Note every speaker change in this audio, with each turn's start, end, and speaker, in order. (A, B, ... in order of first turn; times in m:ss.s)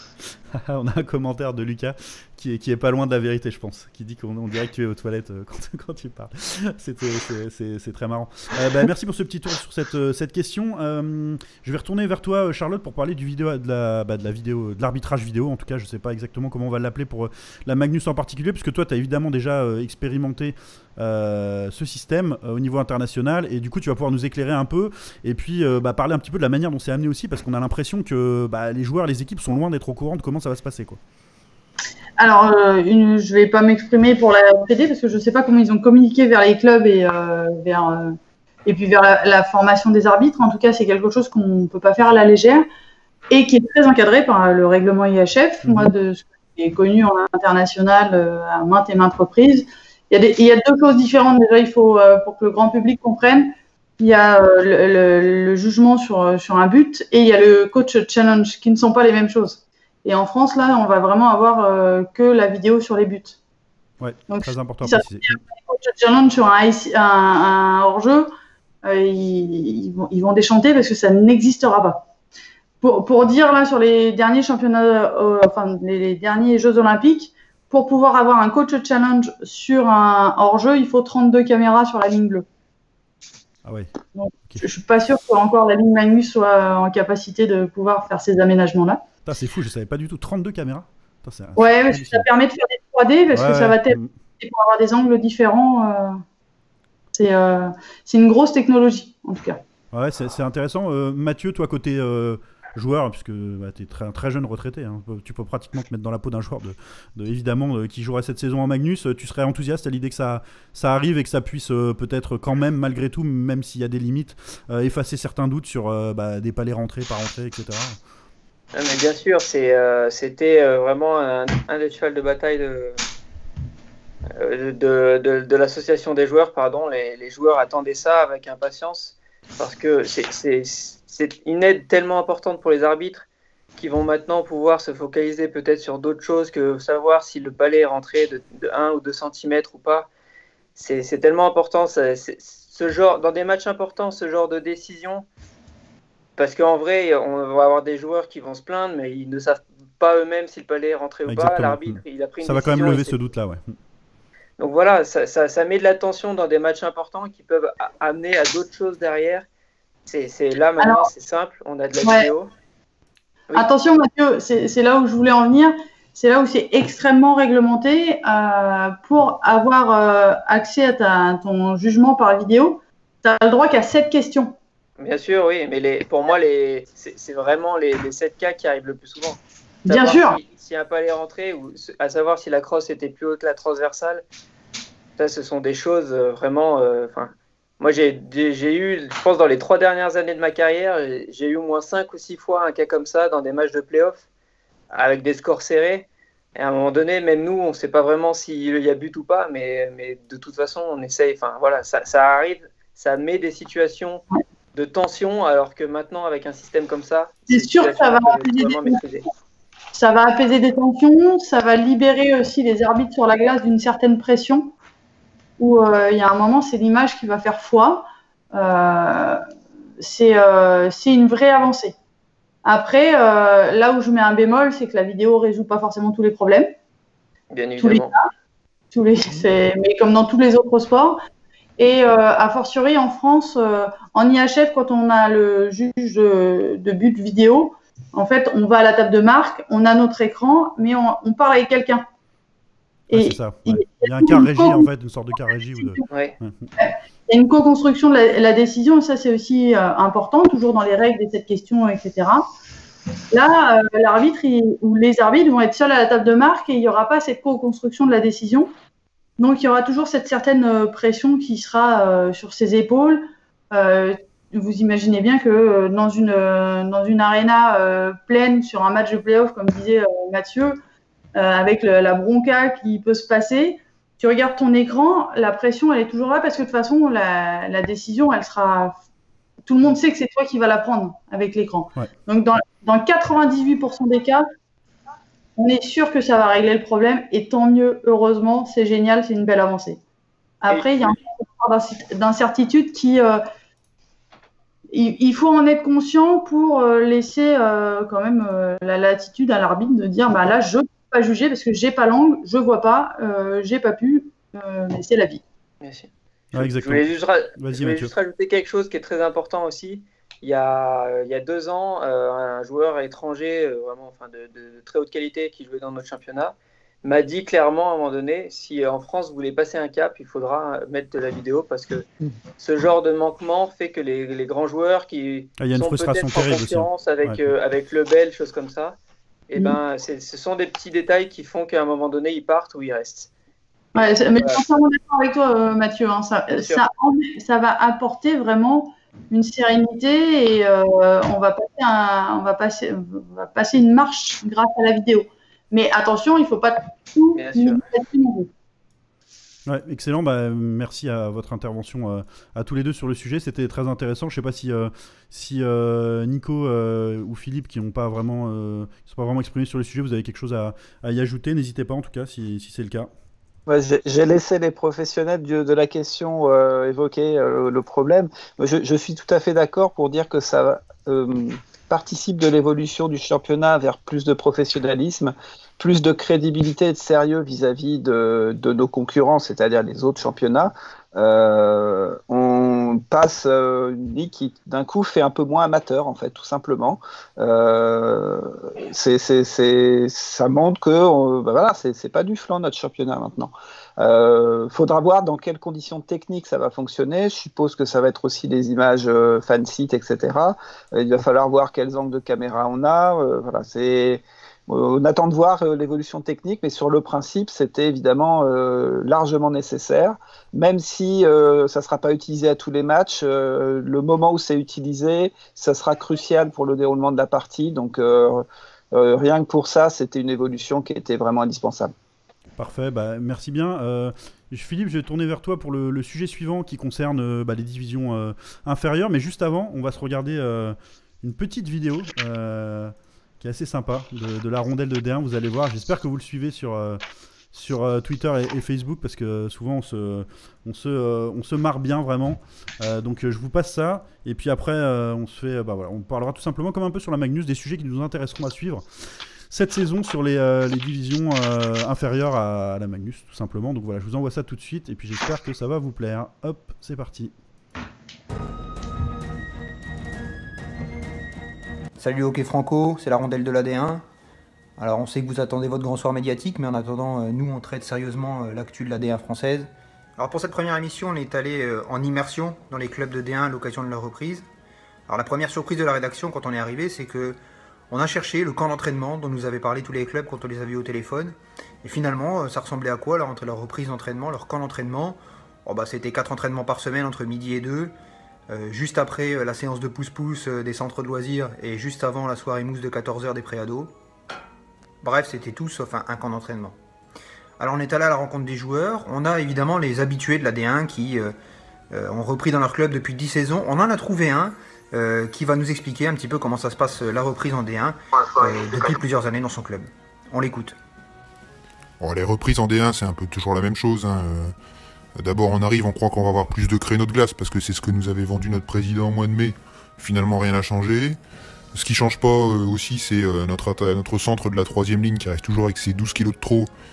0:00.6-0:31.0 A
0:32.2-0:42.6 B
0:43.3-1:03.4 B
0:45.6-0:45.9 A
1:04.0-1:05.4 A
1:04.3-1:08.3 B
1:08.8-1:12.0 B
1:12.8-1:22.4 B
1:23.6-1:23.9 A
1:24.1-1:29.0 B
1:29.2-1:32.2 A
1:31.6-1:36.2 B
1:33.3-1:34.1 A
1:37.1-1:39.6 B
1:39.9-1:58.0 A
1:58.7-2:03.0 C
2:04.3-2:13.2 C
2:13.8-2:20.1 C
2:20.8-2:25.2 C
2:26.4-2:33.2 C
2:31.3-2:33.7 A
2:34.6-2:39.4 C
2:40.1-2:42.5 C
2:40.8-2:41.1 B
2:42.0-2:42.3 B
2:43.5-2:54.6 B
2:55.0-3:04.2 C
2:59.9-3:00.4 B
3:05.2-3:14.2 C
3:14.9-3:29.3 C
3:27.5-3:29.0 B
3:29.9-3:34.7 B
3:35.6-3:39.4 B
3:40.0-3:41.9 B
3:42.6-3:46.7 B
3:47.5-3:48.1 C
3:47.8-3:48.2 B
3:48.9-3:51.2 B
3:51.8-4:02.0 B
4:03.1-4:04.8 B
4:03.1-4:06.7 A
4:05.8-4:06.0 B
4:06.8-4:12.4 B
4:13.3-4:18.7 B
4:19.4-4:30.8 B
4:31.3-4:39.0 B
4:39.6-4:44.4 B
4:45.6-4:50.0 B
4:50.6-4:53.4 B
4:50.7-4:51.0 C
4:54.9-5:05.4 B
5:05.8-5:22.0 C
5:06.5-5:07.0 A
5:07.6-5:08.1 A
5:22.6-5:29.0 C
5:25.6-5:27.4 A
5:29.5-5:33.3 C
5:33.9-5:48.5 B
5:34.4-5:34.6 C
5:36.5-5:36.8 C
5:47.3-5:47.8 C
5:49.7-6:03.1 A
6:03.7-7:01.9 D
7:02.6-7:17.0 A
7:17.5-7:28.8 A
7:29.5-7:37.3 A
7:42.0-7:44.0 E
7:44.8-7:54.4 E
7:55.1-7:57.4 E
7:57.9-8:07.9 E
8:08.5-8:13.9 E
8:15.0-8:16.8 E
8:17.6-8:21.3 E
8:21.9-8:30.8 E
8:32.0-8:34.5 F
8:35.2-8:41.2 F
8:41.7-8:46.7 F